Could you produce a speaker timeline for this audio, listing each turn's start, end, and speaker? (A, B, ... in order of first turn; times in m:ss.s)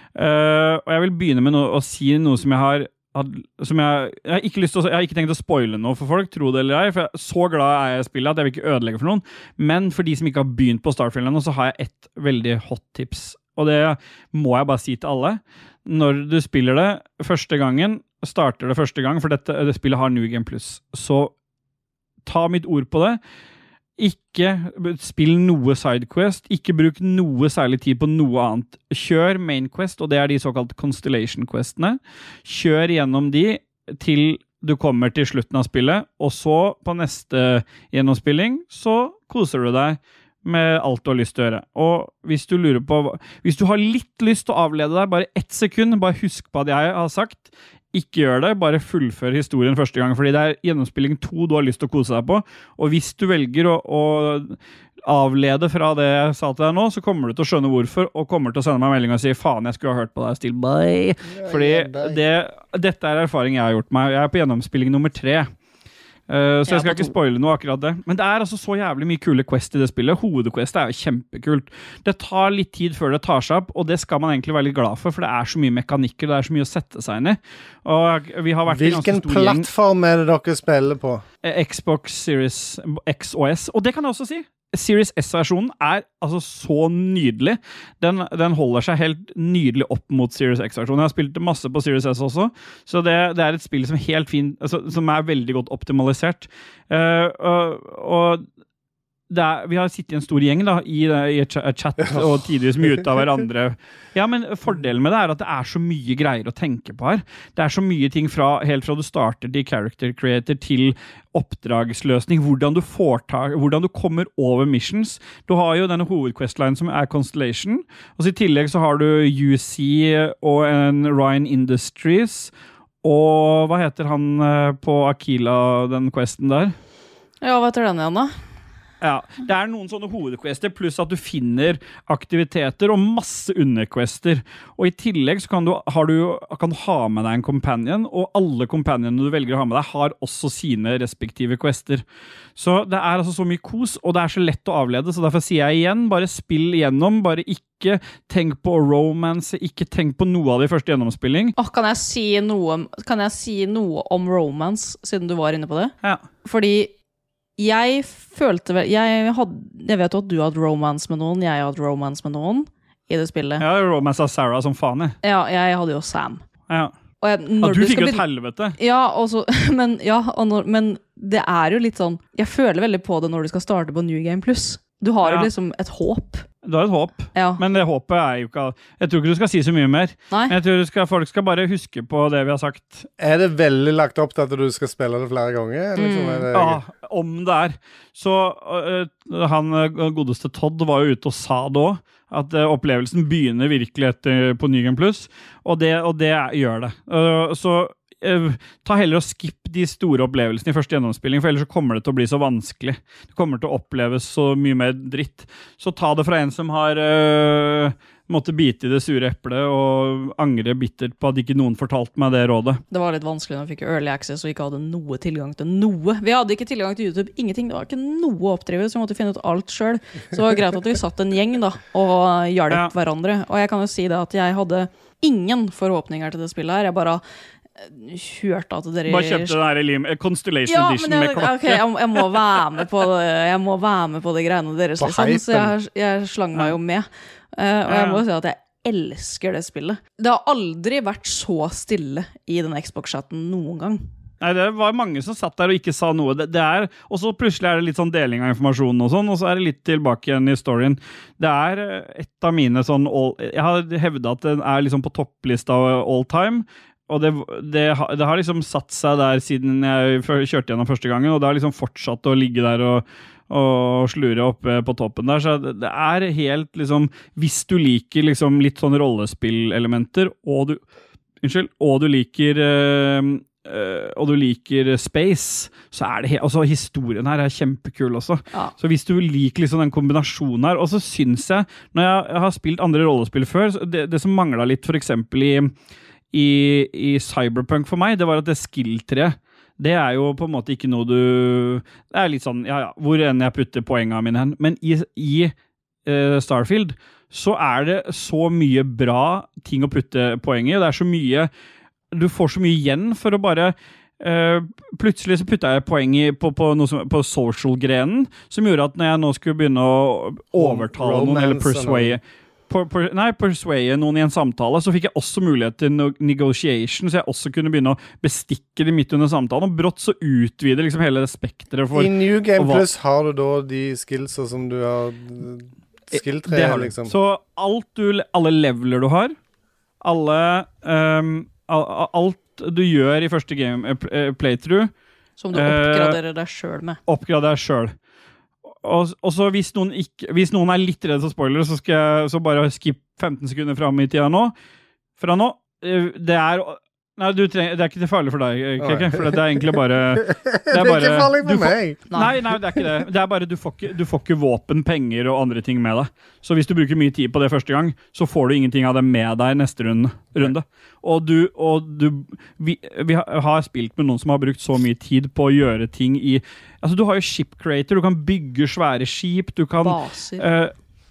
0:00.2-0:21.3 A
0:22.2-0:23.2 A
0:24.0-1:05.5 A
1:01.2-1:02.2 B
1:06.3-1:19.7 A
1:06.7-1:07.1 C
1:18.7-1:21.2 B
1:21.4-1:38.4 A
1:39.3-2:02.5 A
1:42.0-1:42.3 B
2:03.0-2:06.7 A
2:07.4-2:08.3 C
2:09.0-2:22.0 A
2:22.6-2:31.5 A
2:31.6-2:35.9 C
2:36.4-2:36.9 C
2:37.6-2:43.6 C
2:43.6-2:45.2 A
2:45.2-2:46.4 C
2:47.2-2:48.2 C
2:47.6-2:48.8 A
2:48.8-2:56.4 C
2:55.2-2:55.5 A
2:56.6-3:03.1 A
2:57.3-2:57.6 C
3:00.3-3:00.6 C
3:03.2-3:06.8 B
3:06.0-3:06.5 C
3:06.5-3:32.8 A
3:32.9-3:47.2 C
3:47.8-3:49.6 C
3:49.1-3:52.6 A
3:50.7-4:04.0 C
3:55.0-3:55.7 B
3:57.9-3:58.2 A
4:04.4-4:30.8 A
4:31.4-4:45.7 A
4:46.3-4:55.5 A
4:56.0-5:01.5 A
5:02.1-5:22.8 A
5:10.5-5:12.2 B
5:21.9-5:27.1 B
5:26.1-5:29.3 A
5:30.0-5:34.9 A
5:35.4-5:37.0 C
5:35.5-5:36.2 A
5:37.1-5:37.9 A
5:38.8-5:44.5 A
5:45.2-6:10.7 A
5:48.8-5:52.0 B
5:52.1-5:52.4 C
6:09.8-6:10.5 C